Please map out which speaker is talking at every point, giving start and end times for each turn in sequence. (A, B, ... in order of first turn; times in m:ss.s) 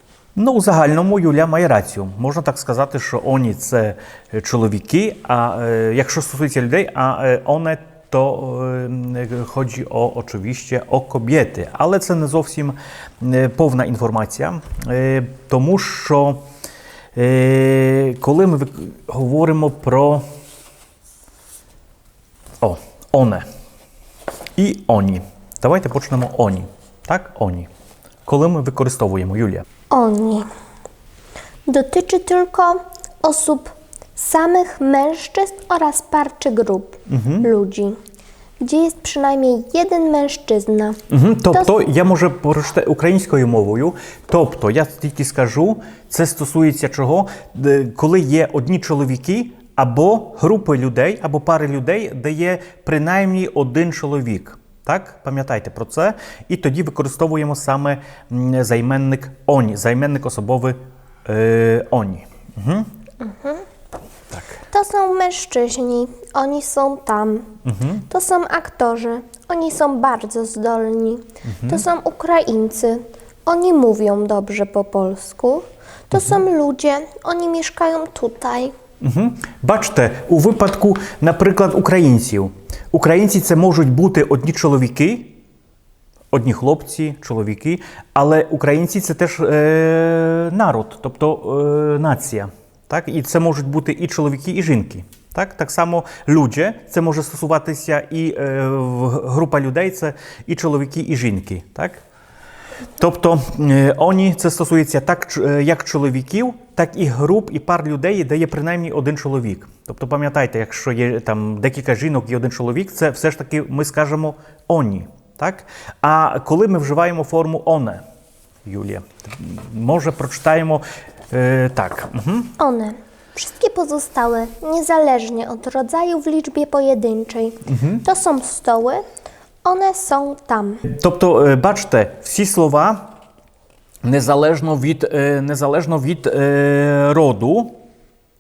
0:00.4-0:16.4 A
0:17.2-0:20.2 A
0:22.6-0:23.4 A
0:24.6-0:27.7 A
0:28.3-0:29.6 A
0:29.9-0:30.5 B
0:31.7-0:38.0 B
0:37.1-0:37.5 A
0:38.6-0:41.0 B
0:41.1-1:02.9 A
1:03.2-1:03.6 B
1:04.7-1:07.5 B
1:07.6-1:08.0 A
1:08.1-1:18.7 B
1:11.5-1:11.8 A
1:19.0-1:25.4 A
1:26.3-1:42.0 A
1:43.0-1:58.0 A
1:58.7-2:02.6 A
2:02.6-2:09.0 B
2:07.7-2:08.0 A
2:09.6-2:10.8 B
2:10.9-2:13.1 A
2:14.0-2:17.8 A